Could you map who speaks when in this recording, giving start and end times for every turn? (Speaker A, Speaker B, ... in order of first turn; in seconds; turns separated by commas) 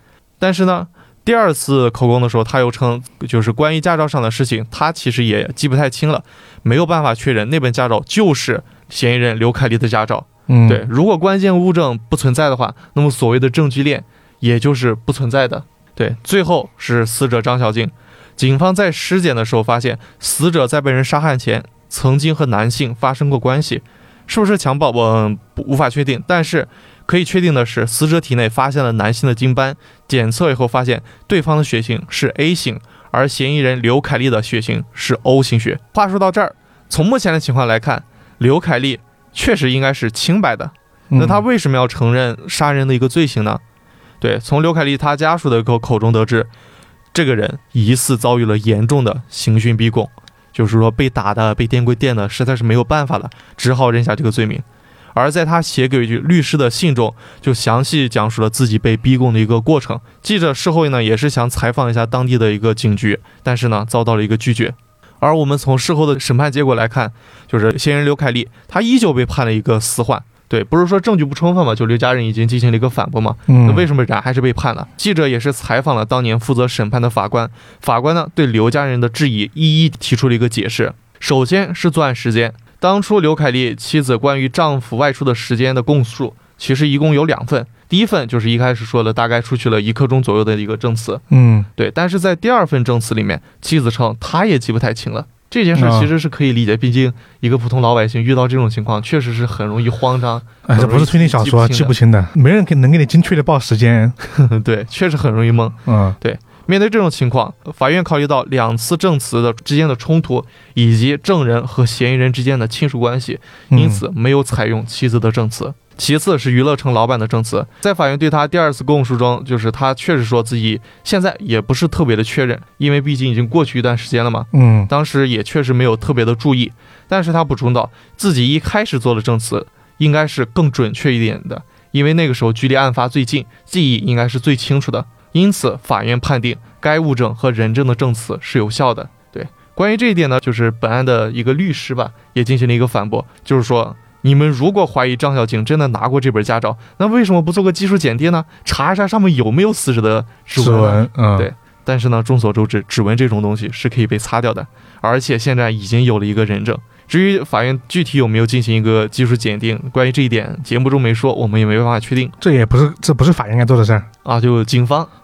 Speaker A: 0.4-43.6, Speaker B: 10.5-10.8, Speaker B: 41.1-41.4, Speaker A: 44.2-46.5, Speaker A: 47.1-91.2, Speaker B: 73.5-73.9, Speaker B: 91.3-91.7, Speaker A: 91.8-101.9, Speaker B: 95.7-96.1, Speaker B: 100.7-104.2, Speaker A: 104.3-162.3, Speaker B: 105.8-106.2, Speaker B: 113.7-114.0, Speaker B: 124.5-124.9, Speaker B: 150.5-151.5, Speaker B: 162.4-164.1, Speaker A: 164.2-165.1